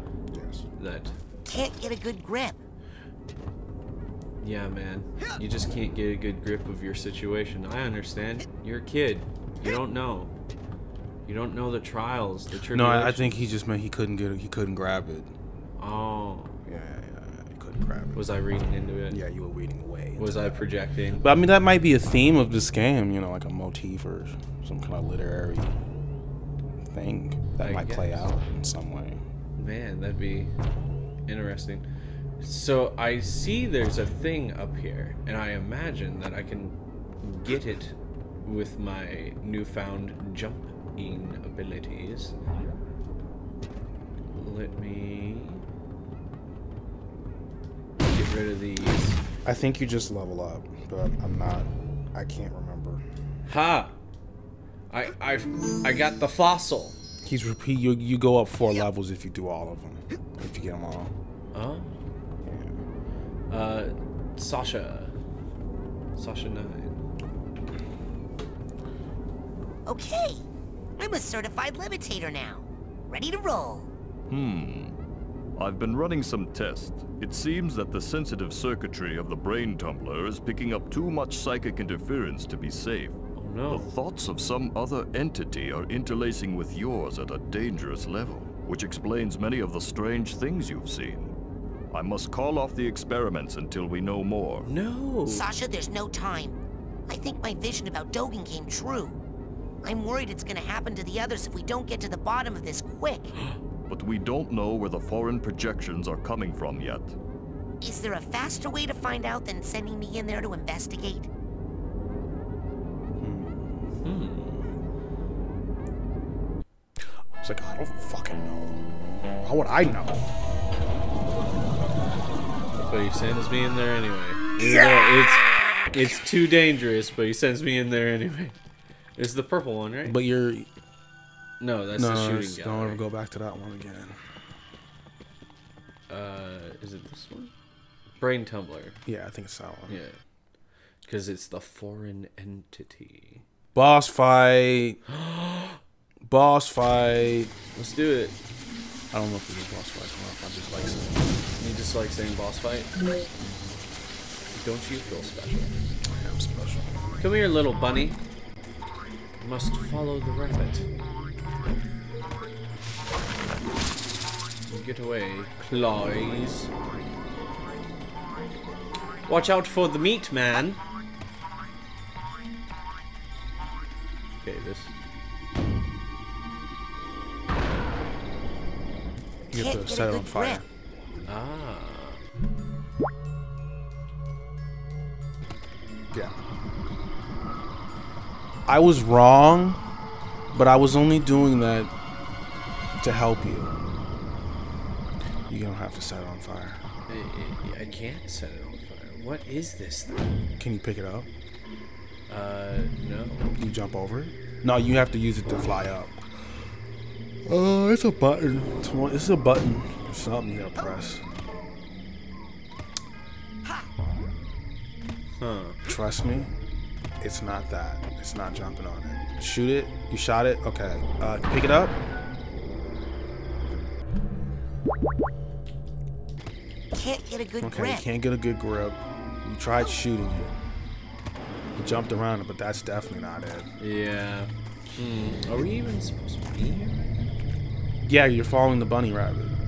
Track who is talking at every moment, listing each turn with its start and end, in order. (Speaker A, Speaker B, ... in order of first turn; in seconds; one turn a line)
Speaker A: 0.3-0.6
Speaker B: 0.8-1.2
Speaker C: 1.4-2.6
Speaker B: 4.4-10.3
Speaker B: 11.2-13.4
Speaker A: 12.7-15.3
Speaker B: 15.8-16.6
Speaker A: 16.6-18.2
Speaker B: 18.1-19.2
Speaker A: 19.1-20.6
Speaker B: 20.2-21.2
Speaker A: 21.2-25.8
Speaker A: 26.9-29.2
Speaker B: 27.6-28.3
Speaker B: 29.6-30.5
Speaker B: 31.3-31.8
Speaker B: 32.4-42.3
Speaker B: 44.3-45.6
Speaker B: 48.0-49.2
Speaker A: 49.4-53.0
Speaker B: 53.5-53.9
Speaker B: 54.9-57.0
Speaker A: 57.2-61.1
Speaker B: 61.5-62.0
Speaker A: 62.4-62.8
Speaker B: 63.5-65.1
Speaker B: 66.2-67.0
Speaker C: 69.9-70.4
Speaker C: 71.0-73.9
Speaker D: 74.3-75.0
Speaker D: 75.6-91.3
Speaker B: 83.3-83.9
Speaker D: 91.9-94.7
Speaker B: 94.6-95.5
Speaker C: 95.3-99.2
Speaker C: 99.8-103.3
Speaker D: 103.9-107.2
Speaker C: 107.8-111.3
Speaker A: 113.2-113.8
Speaker B: 114.0-114.5
Speaker A: 117.4-118.8
Speaker A: 119.4-120.2
Speaker B: 122.8-128.6
Speaker B: 129.2-130.2
Speaker A: 130.1-130.7
Speaker B: 131.6-133.0
Speaker A: 131.9-134.2
Speaker B: 136.1-137.5
Speaker B: 138.2-139.0
Speaker A: 139.1-140.0
Speaker B: 139.9-140.2
Speaker B: 141.0-143.4
Speaker A: 143.7-145.0
Speaker B: 145.1-145.8
Speaker A: 146.2-147.5
Speaker B: 147.7-148.3
Speaker A: 149.1-151.3
Speaker B: 151.6-152.9
Speaker B: 154.5-155.8
Speaker A: 156.1-157.0
Speaker B: 157.2-158.2
Speaker B: 159.4-160.9
Speaker B: 164.7-166.7
Speaker B: 169.3-170.8
Speaker B: 174.4-174.9
Speaker A: 179.5-180.7
Speaker C: 179.5-180.6
Speaker B: 181.2-182.2
Speaker A: 188.7-189.8
Speaker A: 190.5-191.9
Speaker A: 193.0-193.7
Speaker A: 195.5-196.8
Speaker B: 197.1-200.4
Speaker A: 200.6-201.3
Speaker B: 202.3-203.6
Speaker A: 203.6-206.2
Speaker A: 207.4-211.2
Speaker B: 215.4-215.8
Speaker A: 215.8-216.5
Speaker A: 217.2-222.0
Speaker C: 226.9-228.1
Speaker A: 227.6-230.5
Speaker A: 231.7-233.7
Speaker B: 233.8-237.0
Speaker A: 238.1-239.6